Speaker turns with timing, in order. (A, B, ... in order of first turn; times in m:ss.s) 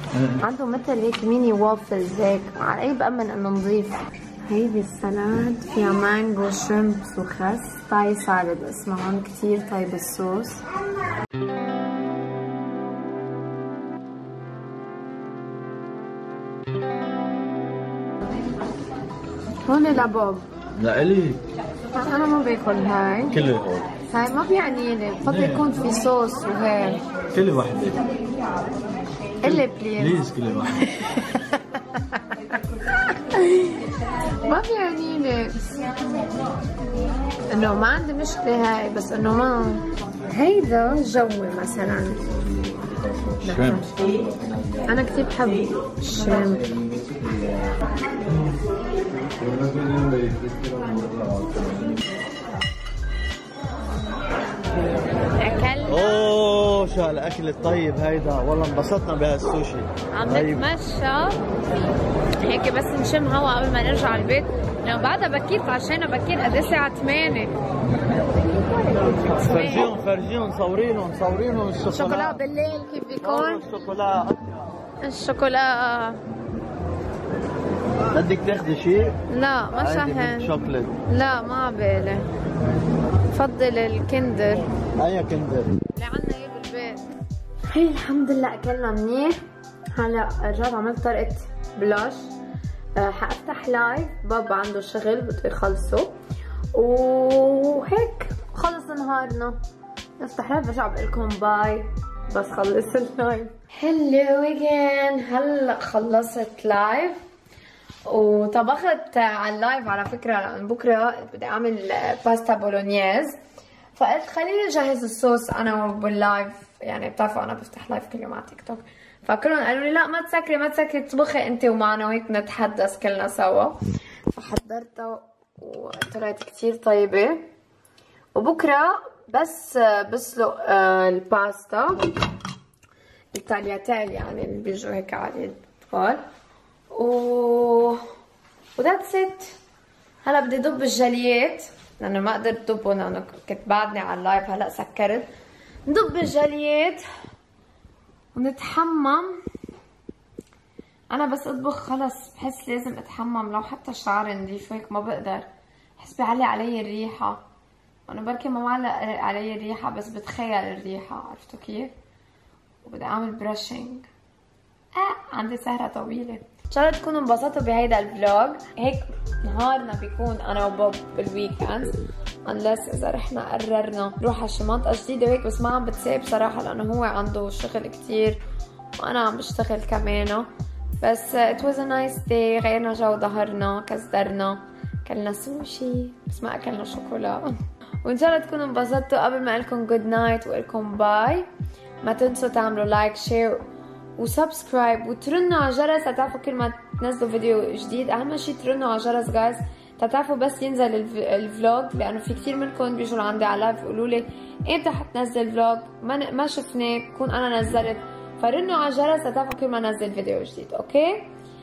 0:00.1-0:00.4 A
0:00.4-0:10.6 B
0:19.7-0:20.4 B
0:20.7-0:21.4 A
0:21.9-0:23.4 B
0:23.3-0:23.9 A
0:24.1-0:27.0 B
0:25.2-0:25.7 A
0:27.3-0:28.0 A
0:29.4-0:30.2 B
0:29.4-0:30.9 A
0:30.9-0:31.6 B
0:33.1-0:35.9 B
0:37.5-0:42.3 B
0:43.3-0:43.8 A
0:43.4-0:44.2 B
0:44.8-0:46.7 B
0:46.8-0:47.7 A
0:49.4-0:52.0 A
0:55.4-0:56.3 B
0:55.8-1:00.7 A
1:00.1-1:01.4 B
1:02.4-1:07.5 B
1:09.3-1:09.9 B
1:09.3-1:12.4 A
1:11.9-1:13.6 B
1:13.2-1:14.8 A
1:15.0-1:16.2 B
1:18.1-1:19.2 A
1:19.3-1:20.5 B
1:19.7-1:20.9 A
1:21.1-1:22.3 B
1:23.3-1:24.6 B
1:25.0-1:25.8 A
1:25.9-1:27.1 B
1:27.7-1:29.4 B
1:30.0-1:32.2 B
1:33.0-1:36.1 B
1:36.7-1:39.6 B
1:40.2-1:47.2 B
1:48.1-1:53.4 B
1:53.9-2:03.8 B
2:04.3-2:07.4 B
2:08.3-2:12.0 B
2:13.3-2:16.2 B
2:16.9-2:18.0 B
2:18.8-2:19.6 B
2:20.2-2:25.3 B
2:25.8-2:27.0 B
2:28.3-2:29.3 B
2:31.1-2:35.4 B
2:36.0-2:37.4 B
2:38.1-2:41.9 B
2:42.8-2:44.1 B
2:44.9-2:58.4 B
2:59.0-3:00.5 B
3:01.0-3:07.5 B
3:08.0-3:11.5 B
3:12.0-3:13.6 B
3:14.2-3:31.3 B